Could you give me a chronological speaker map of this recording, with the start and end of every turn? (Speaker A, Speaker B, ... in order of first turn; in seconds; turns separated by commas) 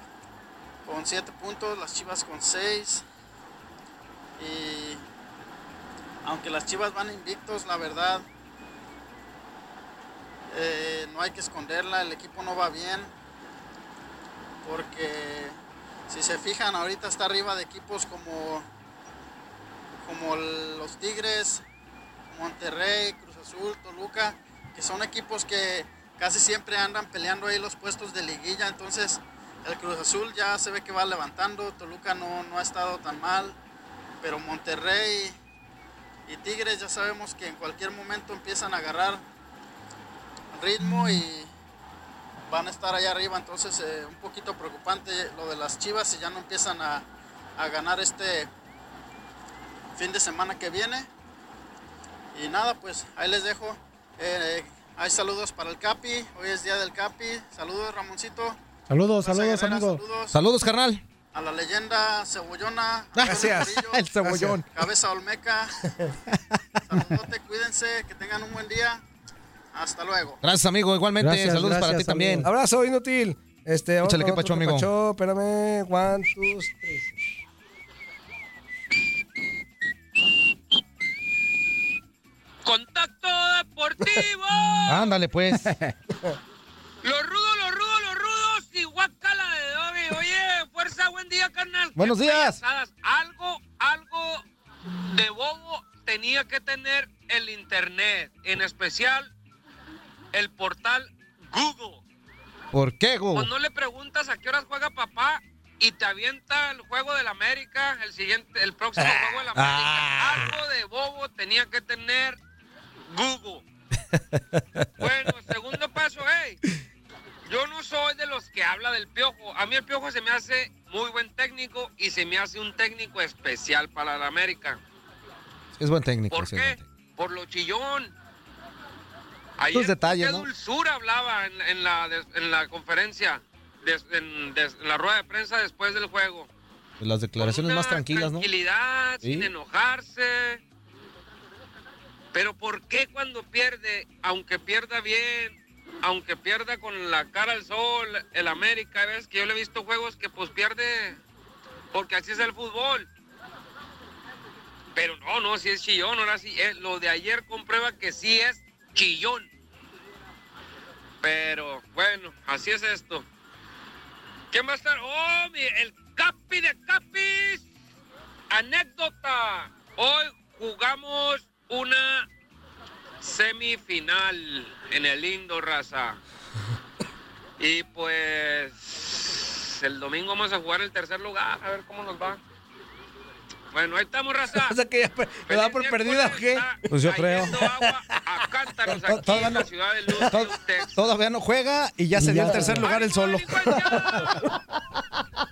Speaker A: 0.8-3.0, Speaker A: 4.4-5.0, Speaker A: 6.2-8.2, Speaker A: 10.5-13.1, Speaker A: 14.6-15.6, Speaker A: 16.1-18.7, Speaker A: 20.1-21.6, Speaker A: 22.3-33.6, Speaker A: 34.2-35.4, Speaker A: 36.3-39.2, Speaker A: 40.5-41.5, Speaker A: 42.5-47.0, Speaker A: 47.6-48.5, Speaker A: 50.0-51.1, Speaker A: 52.3-58.6, Speaker B: 58.9-60.0, Speaker A: 59.2-60.4, Speaker C: 60.3-61.0, Speaker A: 61.3-65.9, Speaker C: 63.2-64.7, Speaker D: 63.2-64.6, Speaker A: 66.9-69.0, Speaker A: 69.7-70.4, Speaker C: 70.4-72.5, Speaker B: 71.2-72.5, Speaker D: 72.5-77.2, Speaker C: 74.0-74.9, Speaker E: 82.6-85.2, Speaker C: 84.9-85.8, Speaker E: 87.0-94.4, Speaker C: 92.0-92.6, Speaker E: 95.1-99.3, Speaker E: 100.3-102.0, Speaker C: 102.7-103.5, Speaker E: 103.3-112.4, Speaker C: 109.0-110.6, Speaker E: 113.1-113.7, Speaker E: 115.0-116.6, Speaker E: 117.5-124.8, Speaker C: 125.8-126.8, Speaker E: 126.3-128.1, Speaker E: 129.6-136.5, Speaker C: 129.7-130.5, Speaker C: 137.0-138.5, Speaker E: 137.4-140.6, Speaker C: 139.2-139.5, Speaker E: 142.3-151.2, Speaker E: 151.9-153.1, Speaker E: 154.9-159.5, Speaker E: 161.2-163.3, Speaker E: 164.5-167.7, Speaker E: 168.5-172.3, Speaker E: 173.2-176.2, Speaker E: 177.6-182.4, Speaker E: 183.7-184.8, Speaker D: 184.5-186.8, Speaker E: 185.5-191.0, Speaker C: 186.9-187.6, Speaker D: 187.5-188.0, Speaker C: 188.9-189.7, Speaker D: 190.2-190.4, Speaker C: 190.2-194.4, Speaker B: 192.2-192.9, Speaker E: 192.6-194.4